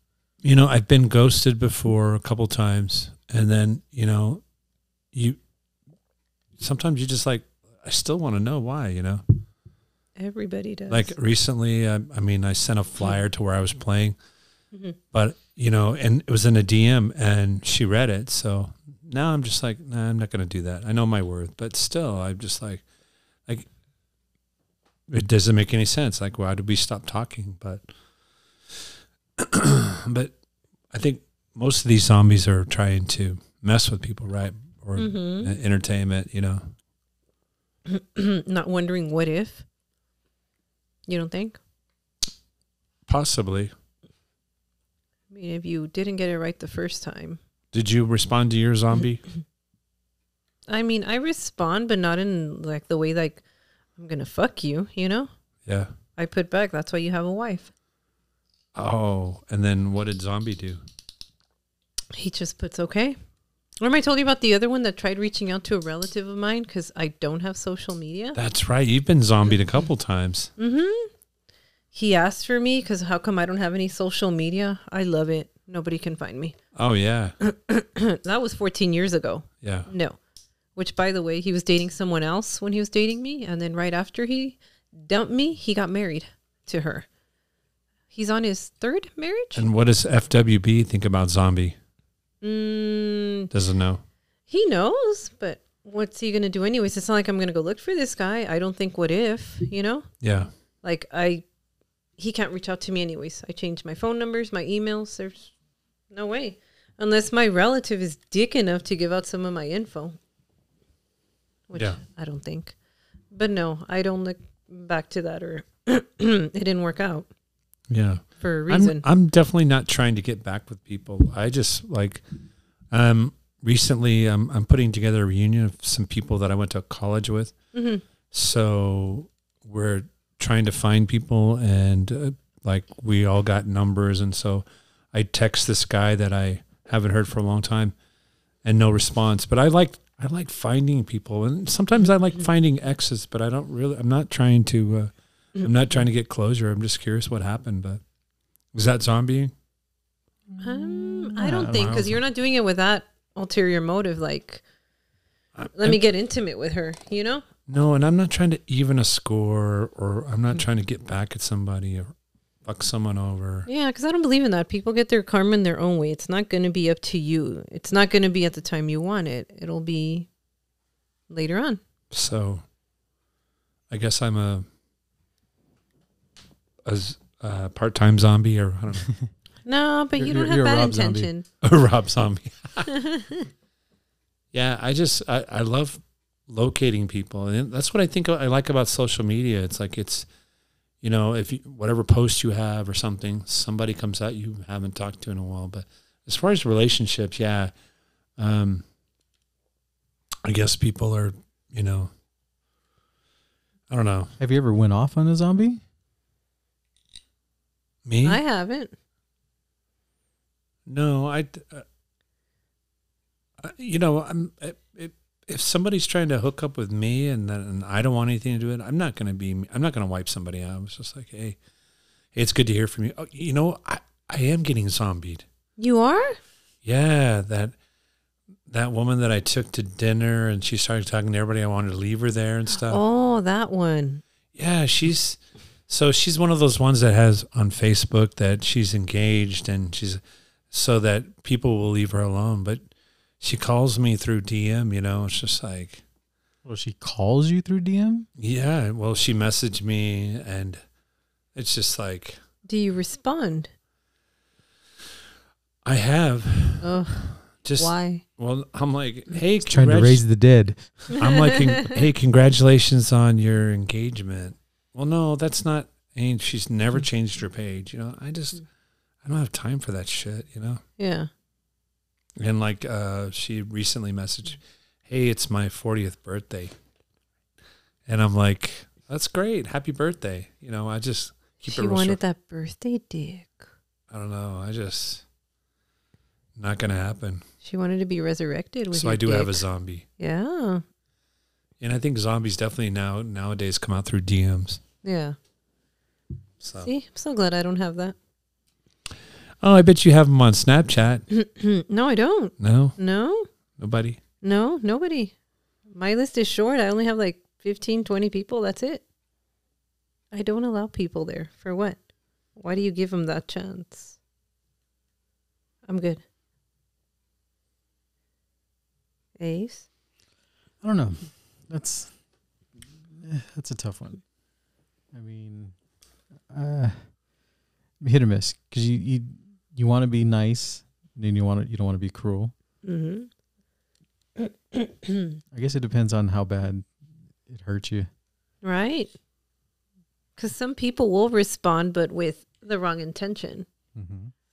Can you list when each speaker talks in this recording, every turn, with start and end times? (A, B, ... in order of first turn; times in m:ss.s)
0:00.4-0:04.4 A
0:05.1-0:05.4 A
0:06.6-0:09.2 A
0:10.2-0:11.1 B
0:10.9-0:14.2 A
0:15.1-0:22.8 A
0:25.1-0:27.8 A
0:29.4-0:30.3 A
0:30.9-0:36.6 A
0:35.0-0:35.5 B
0:37.9-0:39.6 B
0:41.1-0:41.6 B
0:43.1-0:43.7 A
0:45.3-0:47.4 B
0:47.7-0:49.2 A
0:50.7-0:53.4 B
0:54.0-0:55.3 B
0:55.6-0:55.9 A
0:56.2-0:57.7 B
0:58.7-1:00.8 A
1:02.1-1:03.2 B
1:03.8-1:08.4 B
1:08.3-1:10.5 A
1:10.6-1:11.1 B
1:11.9-1:16.6 B
1:16.7-1:17.4 A
1:17.4-1:20.2 B
1:19.6-1:19.9 A
1:20.8-1:27.0 B
1:28.1-1:29.6 B
1:29.6-1:31.8 A
1:32.4-1:33.5 B
1:33.5-1:34.0 A
1:34.5-1:40.1 B
1:40.2-1:40.5 A
1:40.8-1:41.4 B
1:42.2-1:45.5 B
1:46.1-1:50.2 B
1:51.7-1:52.7 B
1:53.3-1:57.3 B
1:57.9-2:02.2 A
1:58.4-1:59.0 B
2:02.9-2:07.5 A
2:07.7-2:08.0 B
2:08.3-2:17.9 A
2:18.6-2:28.0 A
2:28.7-2:29.5 A
2:30.5-2:32.0 C
2:30.6-2:34.6 B
2:31.5-2:32.2 A
2:35.6-2:36.0 A
2:35.7-2:37.4 B
2:37.7-2:42.1 A
2:42.6-2:43.7 A
2:43.6-2:50.3 B
2:51.3-2:51.8 B
2:52.1-2:52.6 A
2:53.9-2:54.6 A
2:56.8-2:59.1 A
2:59.6-3:01.4 B
3:00.2-3:01.3 C
3:01.6-3:02.9 A
3:02.9-3:03.5 B
3:04.5-3:10.2 A
3:11.0-3:17.7 A
3:18.4-3:18.8 A
3:20.4-3:22.1 A
3:23.9-3:24.3 A
3:24.4-3:25.8 C
3:28.0-3:28.4 A
3:28.2-3:28.9 B
3:30.9-3:31.8 A
3:33.6-3:41.6 A
3:42.3-3:45.4 A
3:45.8-3:46.4 B
3:46.8-3:47.7 A
3:48.7-3:53.0 A
3:52.8-3:54.2 B
3:54.5-4:02.8 A
4:03.4-4:06.0 A
4:06.6-4:08.3 C
4:08.4-4:10.8 A
4:11.5-4:12.4 A
4:12.6-4:13.7 B
4:15.8-4:16.9 A
4:16.8-4:18.2 B
4:17.6-4:20.2 A
4:19.6-4:21.2 C
4:21.1-4:28.6 A
4:21.2-4:21.9 B
4:29.2-4:30.8 A
4:31.0-4:31.3 B
4:32.4-4:36.7 A
4:38.1-4:42.2 A
4:41.6-4:43.6 B
4:44.1-4:45.2 A
4:46.6-4:47.4 A
4:47.6-4:49.6 B
4:48.9-4:50.0 A
4:50.2-4:50.8 B
4:51.8-4:54.8 A
4:55.0-4:55.4 B
4:56.6-4:56.9 A
4:56.8-4:58.2 B
4:59.6-5:01.2 A
5:01.3-5:03.5 B
5:02.6-5:03.0 A
5:03.8-5:04.2 A
5:04.4-5:05.3 B
5:05.9-5:09.0 B
5:10.3-5:12.0 B
5:12.6-5:14.1 B
5:15.9-5:16.2 B
5:19.4-5:19.9 B
5:20.8-5:22.1 C
5:23.1-5:24.2 C
5:25.1-5:25.7 C
5:26.5-5:27.1 C
5:28.0-5:32.5 C
5:32.8-5:33.3 B
5:34.4-5:35.4 B
5:35.5-5:36.9 C
5:37.4-5:38.1 C
5:38.6-5:39.1 B
5:40.4-5:43.7 B
5:43.9-5:44.3 C